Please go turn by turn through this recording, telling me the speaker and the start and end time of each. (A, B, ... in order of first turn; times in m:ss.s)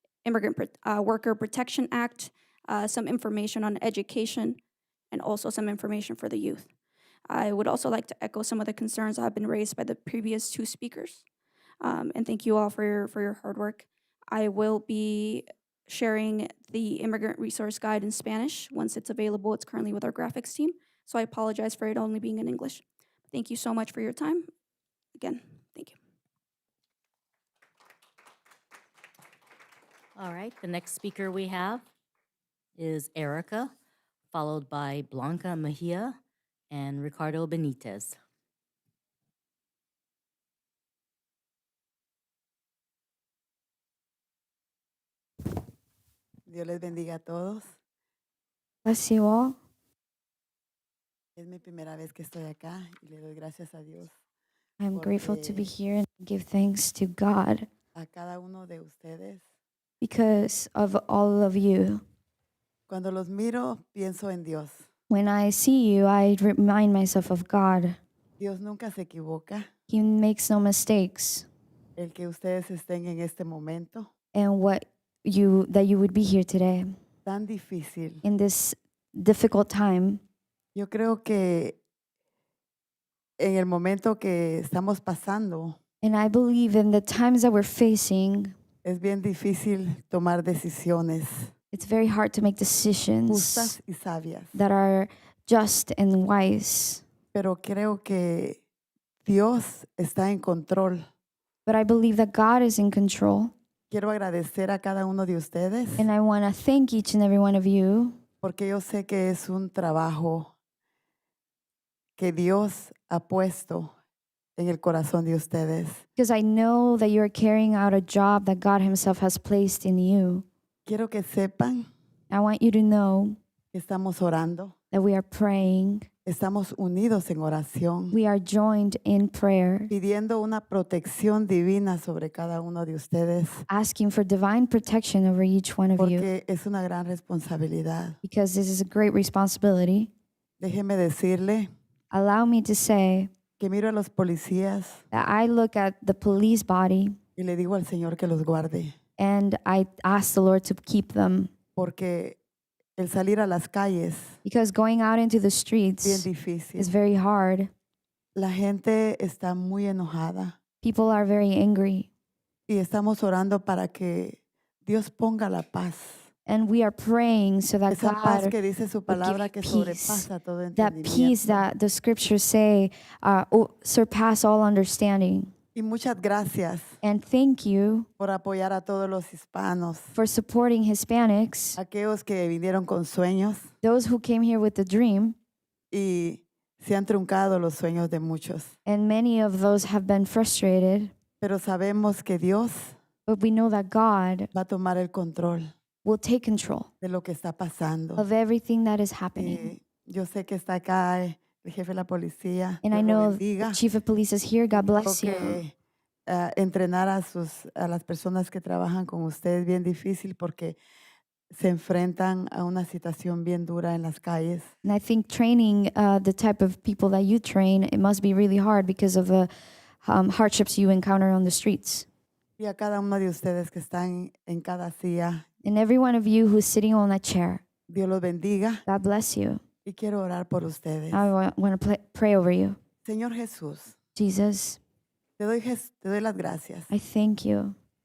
0:00.2-0:04.6 A
0:05.1-0:06.7 A
0:07.3-0:11.2 A
0:11.8-0:24.5 A
0:25.2-0:26.0 A
0:30.2-0:31.8 B
0:32.8-0:33.7 B
0:34.3-0:36.2 B
0:36.7-0:38.2 B
0:46.4-0:47.6 C
0:48.8-0:49.6 D
0:51.4-0:54.1 C
0:54.8-0:57.7 D
0:54.9-0:55.7 C
0:57.9-0:59.4 C
1:00.0-1:02.0 D
1:02.9-1:04.8 C
1:05.1-1:08.0 D
1:08.4-1:09.7 C
1:09.9-1:11.5 D
1:12.0-1:14.1 C
1:14.3-1:16.9 D
1:17.2-1:18.2 C
1:18.2-1:20.2 D
1:20.7-1:21.8 C
1:23.4-1:25.8 C
1:26.0-1:28.5 D
1:28.8-1:31.5 C
1:31.7-1:33.8 D
1:33.3-1:34.6 C
1:34.5-1:37.0 D
1:37.3-1:38.6 C
1:39.2-1:41.0 C
1:41.6-1:43.5 D
1:43.9-1:46.1 C
1:46.0-1:48.2 D
1:48.4-1:50.5 C
1:52.2-1:53.9 C
1:54.6-1:56.0 C
1:56.2-2:00.4 D
2:00.8-2:01.9 C
2:02.3-2:03.4 D
2:03.7-2:04.7 C
2:04.9-2:06.1 D
2:06.2-2:08.2 C
2:08.1-2:09.9 D
2:09.9-2:13.6 C
2:13.7-2:16.3 D
2:16.0-2:18.2 C
2:18.2-2:20.1 D
2:20.6-2:21.7 C
2:22.1-2:23.3 D
2:23.6-2:25.0 C
2:25.1-2:27.2 D
2:27.4-2:28.9 C
2:29.2-2:31.5 D
2:31.8-2:32.4 C
2:33.0-2:34.4 C
2:34.4-2:37.7 D
2:36.0-2:36.9 C
2:38.4-2:40.6 C
2:40.8-2:42.1 D
2:42.7-2:46.2 C
2:46.5-2:48.5 D
2:47.9-2:51.6 C
2:49.1-2:55.5 D
2:55.7-2:57.0 C
2:57.0-2:58.1 D
2:58.2-3:00.1 C
3:00.1-3:01.8 D
3:01.8-3:03.7 C
3:03.8-3:05.4 D
3:05.9-3:08.7 C
3:08.8-3:11.1 D
3:11.4-3:13.0 C
3:13.2-3:14.5 D
3:14.5-3:15.7 C
3:16.0-3:16.9 D
3:17.0-3:18.2 C
3:18.2-3:19.7 D
3:19.3-3:23.8 C
3:22.8-3:25.6 D
3:24.7-3:25.7 C
3:26.3-3:30.8 C
3:31.5-3:34.7 C
3:34.8-3:42.1 D
3:42.6-3:45.4 C
3:45.6-3:47.6 D
3:47.9-3:48.8 C
3:48.8-3:49.6 D
3:49.8-3:51.3 C
3:51.1-3:52.8 D
3:53.0-3:53.9 C
3:54.1-3:54.8 D
3:55.4-3:56.9 C
3:56.9-3:57.8 D